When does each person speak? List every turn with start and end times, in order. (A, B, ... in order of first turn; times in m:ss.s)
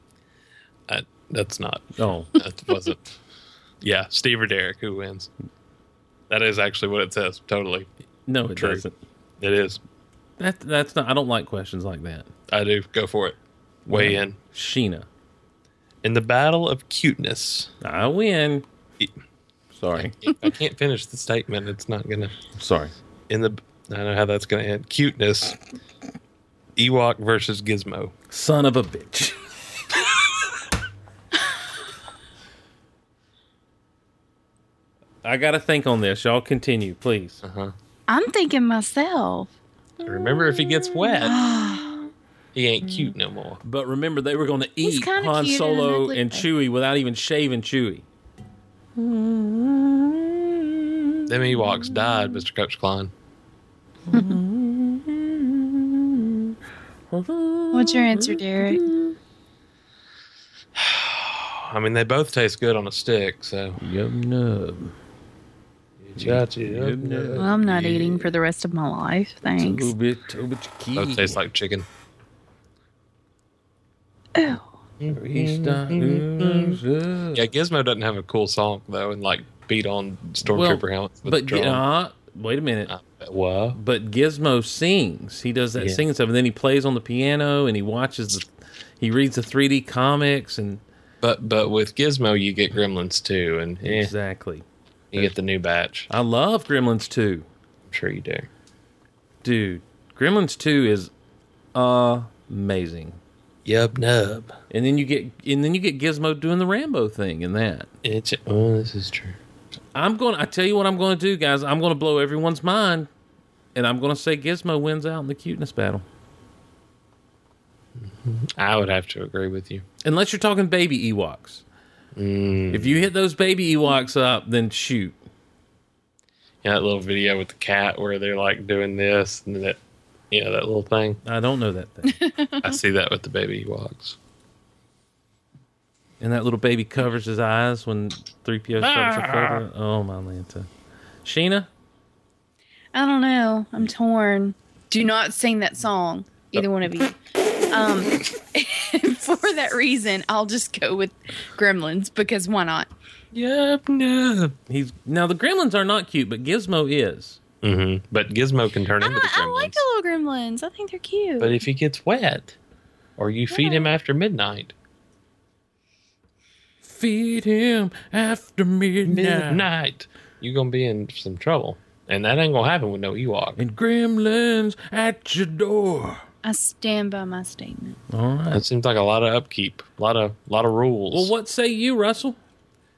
0:00.9-0:03.1 A
0:02.0-0:02.3 B
0:03.8-0:05.3 A
0:06.3-0:07.9 A
0:08.3-0:09.0 B
0:08.5-0:08.8 A
0:09.4-0:09.8 A
0:10.4-0:12.3 B
0:12.5-0:14.4 A
0:13.9-0:15.1 B
0:16.0-0:17.7 A
0:17.8-0:18.6 B
0:19.7-0:20.1 B
0:20.0-0:22.3 A
0:22.6-0:22.9 B
0:23.3-0:25.6 A
0:26.8-0:28.1 A
0:28.3-0:29.4 B
0:35.2-0:37.4 B
0:37.4-0:37.7 A
0:38.1-0:39.5 C
0:40.0-0:41.3 A
0:40.0-0:41.3 B
0:41.2-0:42.0 C
0:42.5-0:43.6 A
0:43.6-0:48.0 B
0:44.8-0:46.4 C
0:49.0-0:52.4 B
0:51.3-0:53.1 A
0:54.1-0:56.5 B
0:57.1-0:59.1 B
0:57.7-0:58.9 C
1:00.7-1:03.8 A
1:03.8-1:04.9 B
1:06.0-1:08.3 A
1:06.2-1:07.5 B
1:07.4-1:09.9 C
1:09.6-1:11.4 B
1:11.0-1:11.8 A
1:14.3-1:14.7 C
1:15.0-1:16.8 A
1:15.1-1:17.5 B
1:17.3-1:21.8 A
1:20.4-1:22.9 B
1:22.9-1:23.8 A
1:23.7-1:28.5 B
1:25.8-1:26.0 A
1:29.0-1:30.8 B
1:31.2-1:34.1 A
1:33.8-1:34.6 B
1:35.1-1:36.1 A
1:36.1-1:37.5 B
1:37.9-1:38.5 A
1:39.4-1:41.1 B
1:41.7-1:43.2 B
1:43.6-1:44.5 A
1:44.7-1:47.9 B
1:48.0-1:49.4 A
1:49.9-1:53.1 B
1:53.7-1:56.0 B
1:58.0-1:59.8 A
2:00.0-2:01.6 B
2:02.2-2:03.1 A
2:02.7-2:05.2 B
2:06.6-2:09.8 A
2:10.3-2:11.2 A
2:11.2-2:12.2 B
2:12.0-2:12.7 C
2:12.6-2:14.2 A
2:16.2-2:20.7 B
2:18.9-2:19.6 A
2:21.2-2:21.7 B
2:22.9-2:27.2 C
2:27.7-2:32.9 C
2:33.3-2:34.5 A
2:34.7-2:37.4 B
2:37.6-2:39.8 A
2:39.0-2:41.6 C
2:41.4-2:42.6 A
2:43.2-2:44.7 A
2:43.5-2:43.9 C
2:46.8-2:49.7 B
2:49.0-2:53.6 A
2:53.6-2:56.2 B
2:56.4-2:58.0 C
2:58.1-2:58.6 B
2:58.5-3:01.3 A
3:01.1-3:02.4 B